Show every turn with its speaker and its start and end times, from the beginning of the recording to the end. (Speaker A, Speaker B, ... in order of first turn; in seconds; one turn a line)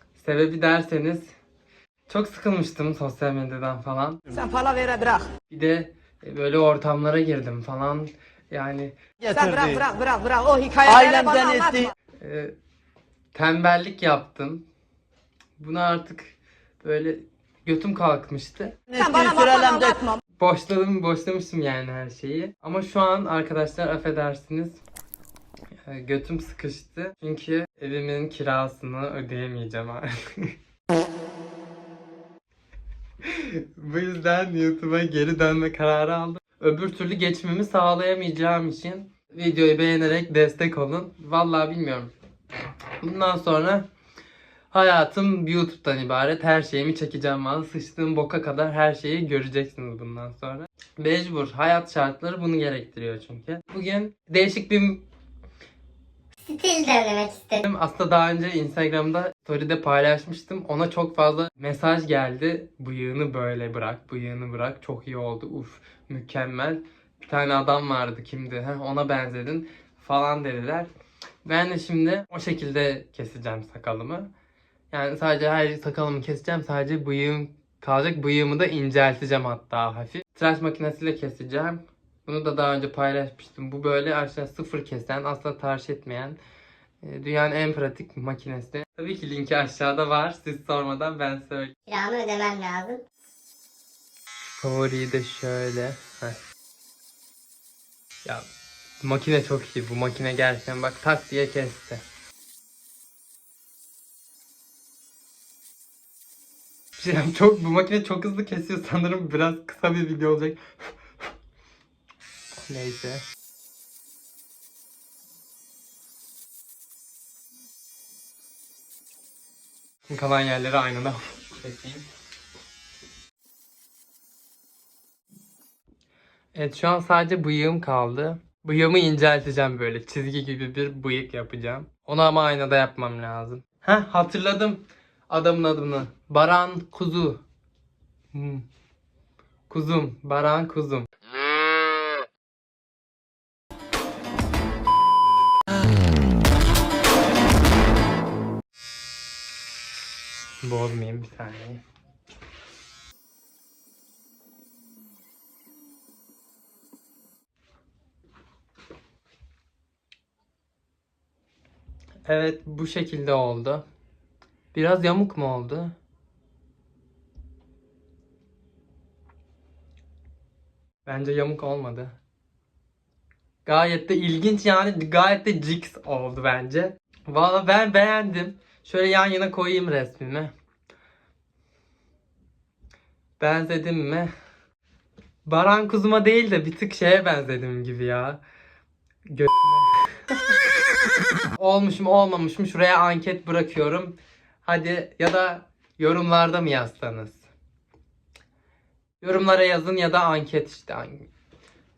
Speaker A: 0.1-1.3
Speaker A: 2.1-4.2
Speaker B: 4.3-5.3
Speaker A: 5.5-8.9
Speaker B: 9.2-11.9
Speaker A: 12.2-12.5
Speaker A: 13.3-14.7
Speaker A: 15.6-18.8
Speaker B: 18.9-20.2
Speaker A: 20.4-24.8
Speaker A: 25.9-30.5
Speaker A: 33.2-42.1
Speaker A: 43.0-43.9
Speaker A: 44.7-55.0
Speaker C: 56.5-57.6
Speaker A: 57.6-70.9
Speaker A: 71.5-74.3
Speaker A: 74.9-86.4
Speaker A: 87.0-91.7
Speaker C: 91.9-93.0
Speaker A: 94.6-96.4
Speaker A: 99.0-102.0
Speaker A: 107.0-110.6
Speaker A: 112.7-113.2
Speaker A: 120.1-122.0
Speaker A: 126.5-137.4
Speaker A: 138.3-138.6
Speaker A: 139.7-141.1
Speaker A: 150.6-151.8
Speaker A: 162.3-163.8
Speaker A: 164.7-165.9
Speaker A: 171.1-172.2
Speaker A: 173.6-180.5
Speaker A: 183.4-184.3
Speaker A: 185.4-188.4
Speaker A: 189.3-190.5
Speaker A: 191.5-197.4
Speaker A: 199.2-201.3